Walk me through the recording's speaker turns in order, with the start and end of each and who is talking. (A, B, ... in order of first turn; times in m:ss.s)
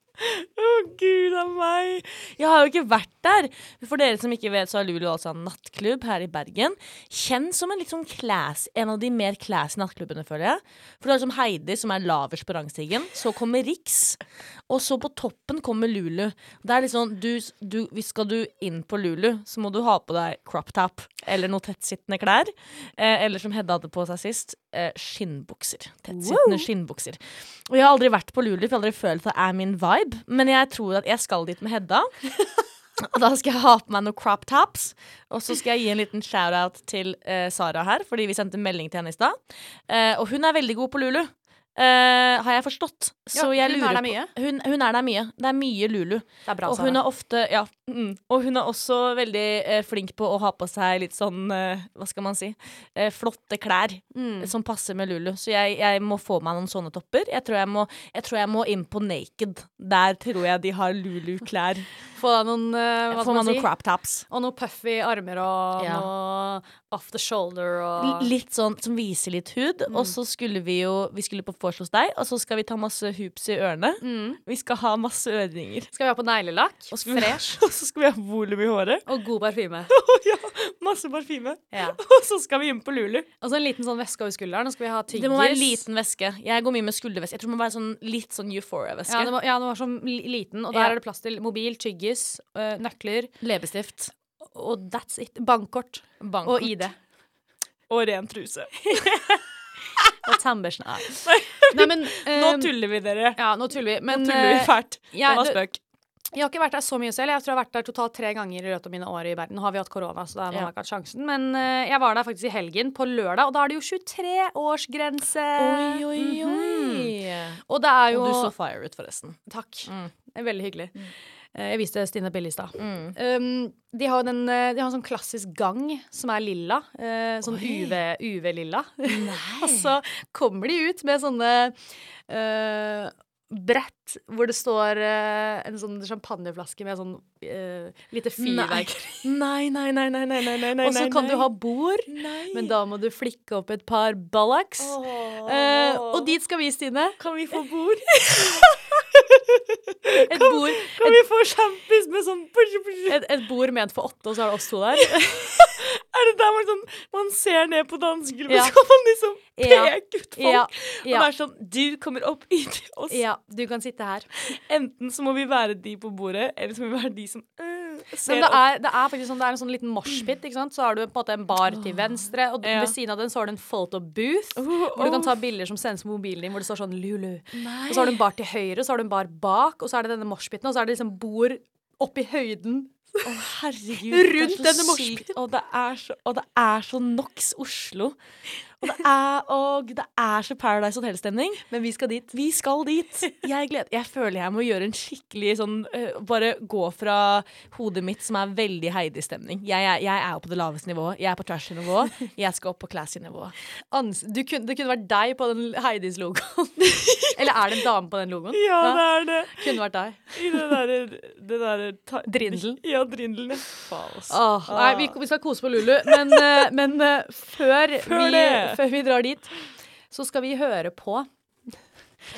0:00.2-0:32.2 A
0:26.1-0:26.7 B
0:33.0-1:01.9 A
0:43.3-0:44.3 B
0:46.5-0:47.0 B
0:54.1-0:54.5 B
1:02.2-1:03.7 B
1:03.1-1:04.2 A
1:04.3-1:08.3 B
1:05.8-1:06.1 A
1:08.0-1:15.9 A
1:09.9-1:10.1 B
1:14.0-1:14.4 B
1:15.9-1:17.6 B
1:16.9-1:19.1 A
1:19.1-1:19.9 B
1:19.9-1:23.3 A
1:21.7-1:22.0 B
1:23.4-1:25.8 B
1:25.1-1:29.3 A
1:29.1-1:33.3 B
1:33.4-1:34.1 A
1:34.5-1:37.0 B
1:36.2-1:36.8 A
1:37.9-1:39.4 A
1:38.9-1:39.4 B
1:40.0-1:40.3 A
1:40.1-1:42.7 B
1:41.1-1:43.4 A
1:43.4-1:45.7 B
1:44.1-1:45.7 A
1:46.3-1:58.5 B
1:55.6-2:00.1 A
1:59.5-2:19.3 B
2:02.8-2:03.2 A
2:07.4-2:08.0 A
2:09.1-2:10.0 A
2:18.4-2:21.5 A
2:20.8-2:27.2 B
2:22.1-2:22.7 A
2:24.8-2:26.4 A
2:27.2-2:33.3 A
2:30.2-2:31.2 B
2:33.1-2:35.8 B
2:35.0-2:43.2 A
2:38.5-2:38.8 B
2:39.6-2:41.3 B
2:43.1-2:44.3 B
2:44.4-2:48.7 A
2:48.2-3:03.4 B
2:51.7-2:52.9 A
2:54.6-2:55.4 A
2:57.5-2:58.2 A
3:03.2-3:08.2 A
3:04.1-3:05.3 B
3:08.8-3:11.6 A
3:11.7-3:12.3 B
3:12.3-3:23.5 A
3:23.9-3:30.8 B
3:26.8-3:27.6 A
3:28.5-3:29.8 A
3:30.3-3:35.2 A
3:32.3-3:32.8 B
3:34.3-3:39.5 B
3:35.8-3:36.7 A
3:38.0-3:38.8 A
3:40.1-3:41.3 B